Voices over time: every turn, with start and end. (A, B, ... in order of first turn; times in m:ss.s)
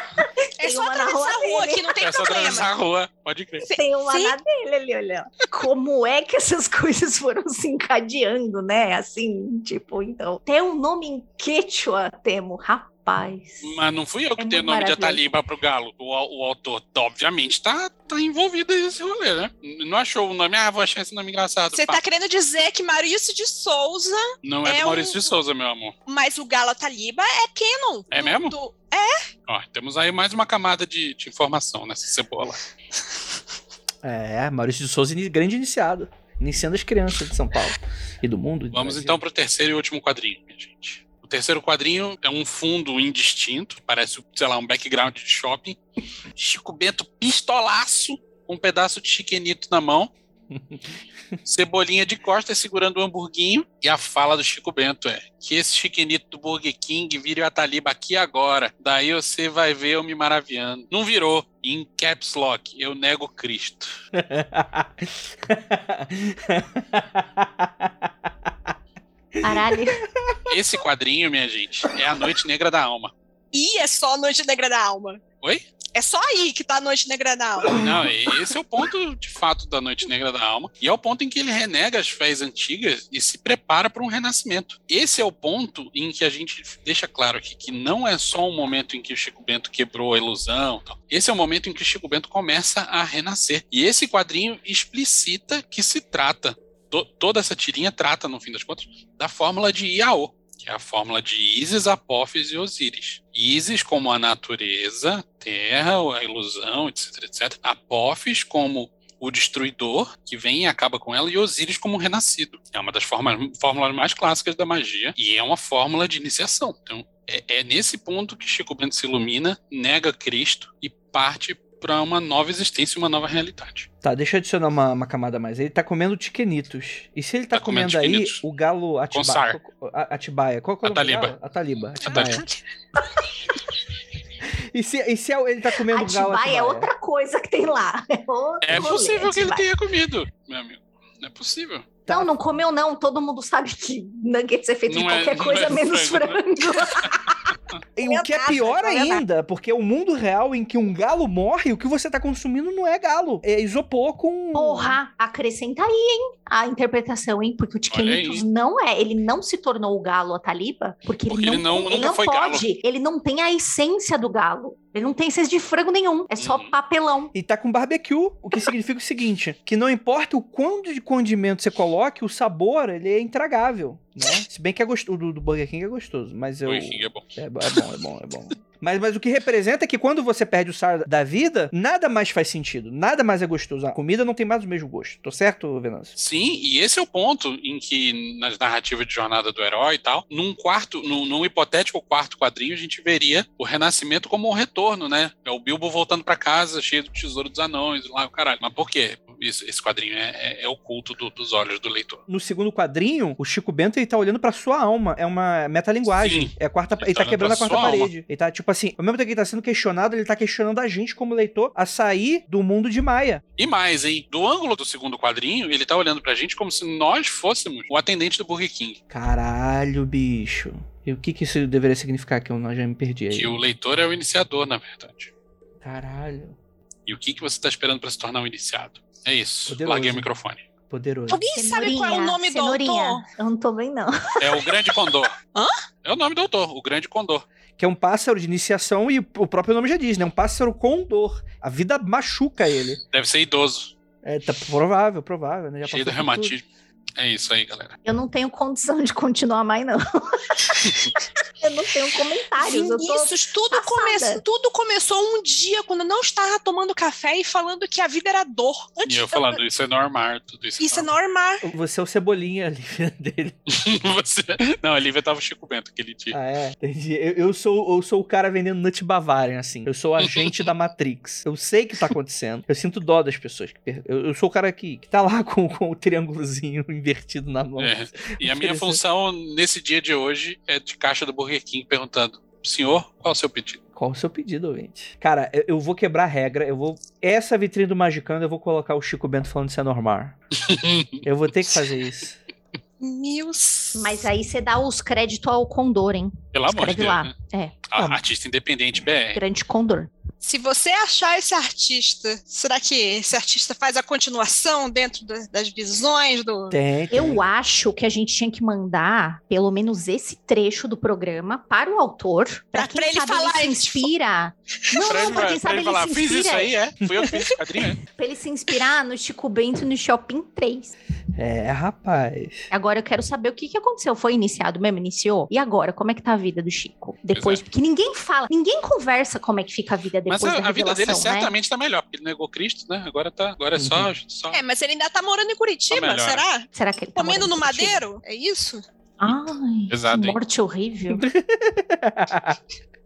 0:00.2-0:02.0 A
0:00.6-0:02.7 B
0:02.0-0:03.7 C
0:03.7-0:04.4 B
0:03.7-0:13.8 A
0:13.6-0:22.0 C
0:14.4-0:15.2 A
0:21.7-0:25.3 B
0:24.4-0:25.9 C
0:26.0-0:29.2 B
0:28.1-0:28.5 C
0:29.5-0:32.6 C
0:34.0-0:39.2 D
0:38.7-0:45.8 C
0:46.4-0:50.1 C
0:50.5-0:50.8 D
0:51.4-1:04.0 C
1:04.1-1:08.5 D
1:09.4-1:10.4 D
1:09.4-1:10.0 A
1:10.5-1:13.1 C
1:13.5-1:15.2 B
1:15.9-1:17.9 B
1:17.7-1:17.9 D
1:17.7-2:03.9 C
2:04.0-2:12.4 D
2:07.5-2:08.4 C
2:09.1-2:09.6 C
2:10.8-2:11.3 C
2:12.0-2:12.4 C
2:14.7-2:16.9 D
2:15.9-2:19.6 A
2:18.6-2:21.9 C
2:18.7-2:19.0 D
2:22.0-2:22.3 D
2:22.1-2:27.5 A
2:24.9-2:27.1 C
2:28.0-2:35.0 D
2:28.0-2:29.2 B
2:34.5-2:47.3 A
2:37.9-2:38.4 C
2:41.3-2:42.6 C
2:46.4-2:46.7 C
2:47.3-3:06.1 D
2:56.6-2:57.8 C
3:06.2-3:22.2 C
3:22.3-3:33.4 D
3:26.1-3:28.1 C
3:33.6-3:39.0 C
3:39.1-3:43.5 D
3:43.3-3:45.3 C
3:45.8-3:46.6 D
3:47.0-3:50.6 C
3:49.7-3:50.3 D
3:50.9-3:51.4 D
3:51.3-3:53.2 B
3:51.6-3:54.9 A
3:54.4-3:55.4 C
3:56.0-3:57.4 C
3:57.8-4:03.0 D
4:03.1-4:03.9 C
4:04.2-4:06.6 D
4:05.8-4:06.6 C
4:07.2-4:08.0 C
4:08.0-4:14.4 A
4:12.6-4:19.6 B
4:19.0-4:21.1 C
4:20.8-4:21.6 B
4:21.6-4:23.6 D
4:23.7-4:26.4 C
4:26.3-4:39.0 D
4:37.8-4:43.8 C
4:43.9-4:50.4 D
4:50.6-4:51.2 C
4:51.2-4:52.4 D
4:53.0-4:54.2 B
4:54.0-4:58.1 A
4:56.5-4:57.3 C
4:57.9-4:59.4 C
4:59.3-5:00.1 A
5:00.4-5:06.8 B
5:06.7-5:07.4 D
5:07.1-5:16.7 A
5:12.7-5:14.1 B
5:15.0-5:18.0 C
5:17.1-5:17.4 D
5:18.1-5:20.9 A
5:21.3-5:22.7 D
5:22.7-5:31.5 A
5:27.3-5:27.6 C
5:30.3-5:34.6 C
5:33.8-5:34.1 D
5:34.5-5:38.8 B
5:35.9-5:36.4 C
5:36.7-5:38.0 A
5:39.2-5:41.2 A
5:39.9-5:40.4 C
5:41.1-5:42.6 D